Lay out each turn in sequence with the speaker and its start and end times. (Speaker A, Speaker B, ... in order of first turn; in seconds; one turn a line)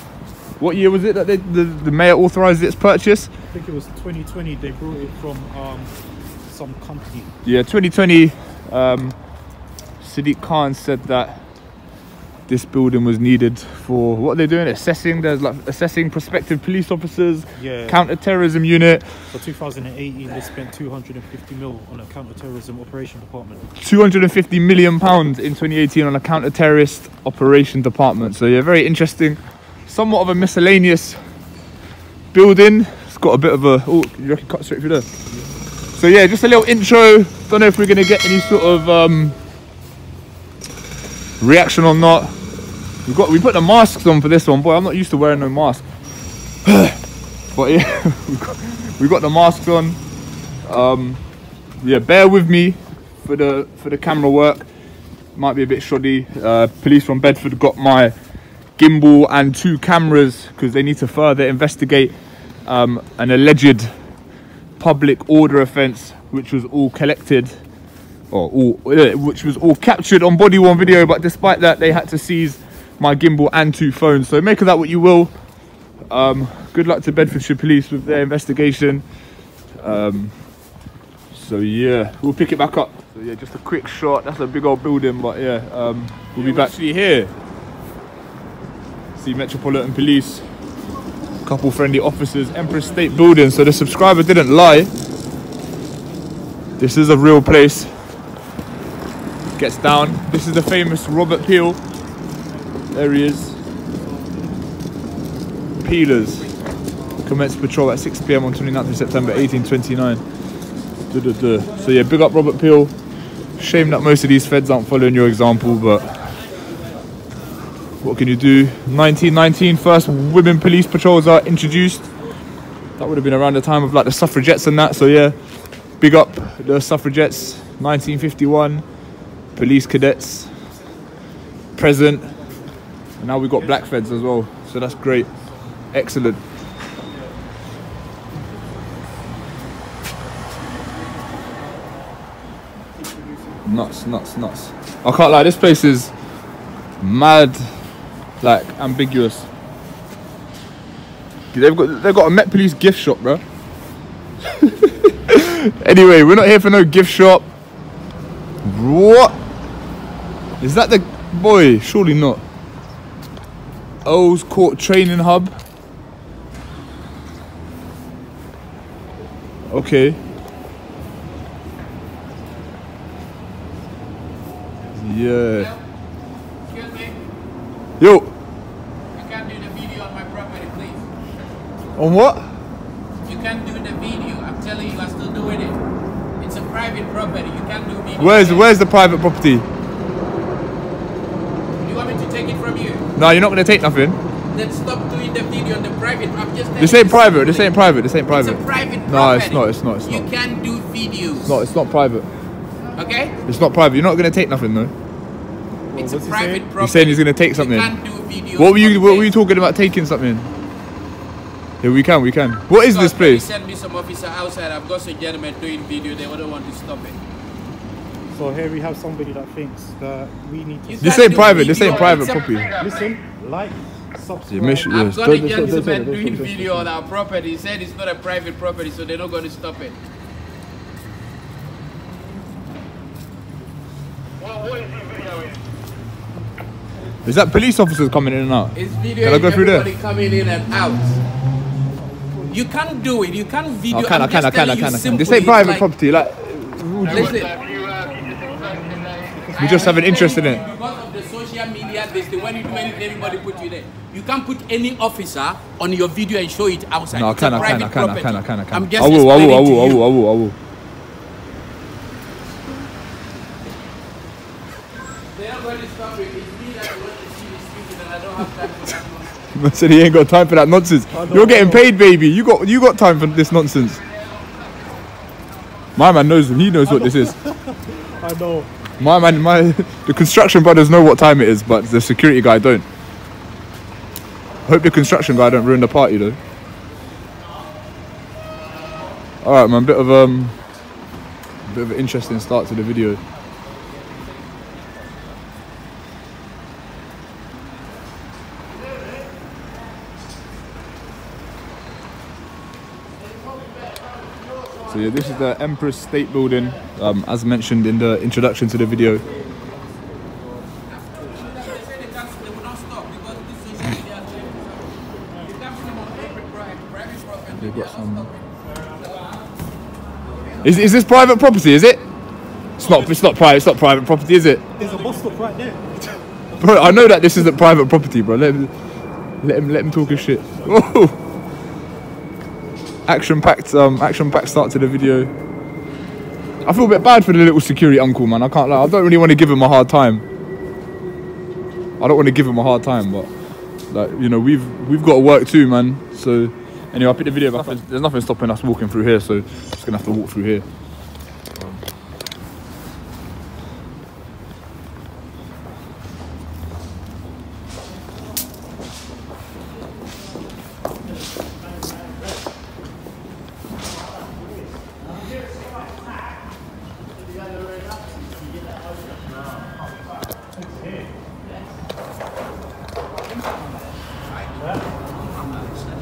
Speaker A: 0.6-3.3
Speaker B: 3.5-5.9
Speaker B: 6.5-7.3
Speaker A: 7.4-9.2
Speaker A: 10.0-11.4
Speaker A: 12.5-19.2
Speaker B: 17.6-18.0
Speaker B: 19.3-23.6
Speaker A: 23.8-31.2
Speaker A: 32.3-35.1
Speaker A: 36.0-39.4
Speaker A: 41.4-42.3
Speaker A: 43.0-45.8
Speaker A: 46.6-47.0
Speaker A: 47.5-50.0
Speaker A: 50.6-51.2
Speaker A: 51.8-54.7
Speaker A: 55.3-58.1
Speaker A: 58.8-62.1
Speaker A: 62.6-63.9
Speaker A: 64.8-67.6
Speaker A: 68.3-75.3
Speaker A: 76.1-79.0
Speaker A: 79.8-80.3
Speaker A: 81.3-87.3
Speaker C: 86.4-86.7
Speaker A: 89.1-90.5
Speaker A: 91.4-94.9
Speaker A: 96.8-97.9
Speaker A: 99.6-101.8
Speaker A: 102.9-103.6
Speaker A: 105.8-106.5
Speaker A: 107.2-110.2
Speaker A: 111.1-112.9
Speaker A: 113.6-116.2
Speaker A: 118.0-122.1
Speaker A: 123.0-125.4
Speaker A: 126.0-128.8
Speaker A: 129.5-130.5
Speaker A: 131.8-132.3
Speaker A: 133.2-135.3
Speaker A: 135.9-136.4
Speaker A: 143.7-146.1
Speaker A: 147.0-147.7
Speaker A: 148.4-149.5
Speaker A: 151.5-153.4
Speaker A: 154.5-157.4
Speaker A: 158.6-159.3
Speaker A: 160.6-162.4
Speaker A: 164.0-165.5
Speaker A: 169.7-170.2
Speaker A: 174.9-175.7
Speaker C: 175.5-175.8
Speaker C: 176.7-177.2
Speaker A: 178.0-178.3
Speaker C: 179.1-181.1
Speaker A: 181.9-182.5
Speaker C: 183.2-185.8
Speaker C: 186.4-188.7
Speaker A: 188.2-189.7
Speaker C: 191.8-193.0
Speaker A: 193.2-194.2
Speaker C: 194.5-197.8
Speaker A: 196.8-200.3
Speaker C: 198.3-201.6
Speaker A: 201.4-202.3
Speaker C: 202.9-203.4
Speaker A: 203.5-204.9
Speaker B: 205.9-206.7
Speaker C: 205.9-209.3
Speaker A: 206.8-207.9
Speaker A: 208.5-210.5
Speaker A: 211.8-213.5
Speaker C: 212.8-217.2
Speaker B: 218.3-222.1
Speaker C: 220.9-222.8
Speaker A: 221.0-222.7
Speaker B: 222.8-224.9
Speaker A: 224.5-226.9
Speaker C: 224.8-229.9
Speaker A: 237.2-239.9
Speaker C: 238.7-241.1
Speaker C: 242.5-245.8
Speaker A: 243.9-247.5
Speaker C: 247.1-247.6
Speaker B: 249.3-250.0
Speaker A: 249.6-250.6
Speaker C: 249.6-260.0
Speaker A: 257.1-260.6
Speaker C: 265.3-269.5
Speaker A: 269.5-274.0
Speaker B: 271.1-271.9
Speaker A: 275.9-277.3
Speaker B: 276.8-278.7
Speaker A: 279.0-282.9
Speaker A: 284.6-286.4
Speaker A: 289.4-290.6
Speaker A: 291.7-293.2
Speaker A: 304.9-309.2
Speaker C: 310.9-319.3
Speaker A: 317.6-318.3
Speaker A: 320.6-322.0
Speaker A: 322.8-324.6
Speaker B: 324.8-327.0
Speaker A: 326.6-328.7
Speaker A: 329.4-331.2
Speaker A: 333.1-335.3
Speaker A: 336.6-340.2
Speaker A: 342.0-343.3
Speaker A: 343.9-350.6
Speaker B: 370.5-371.1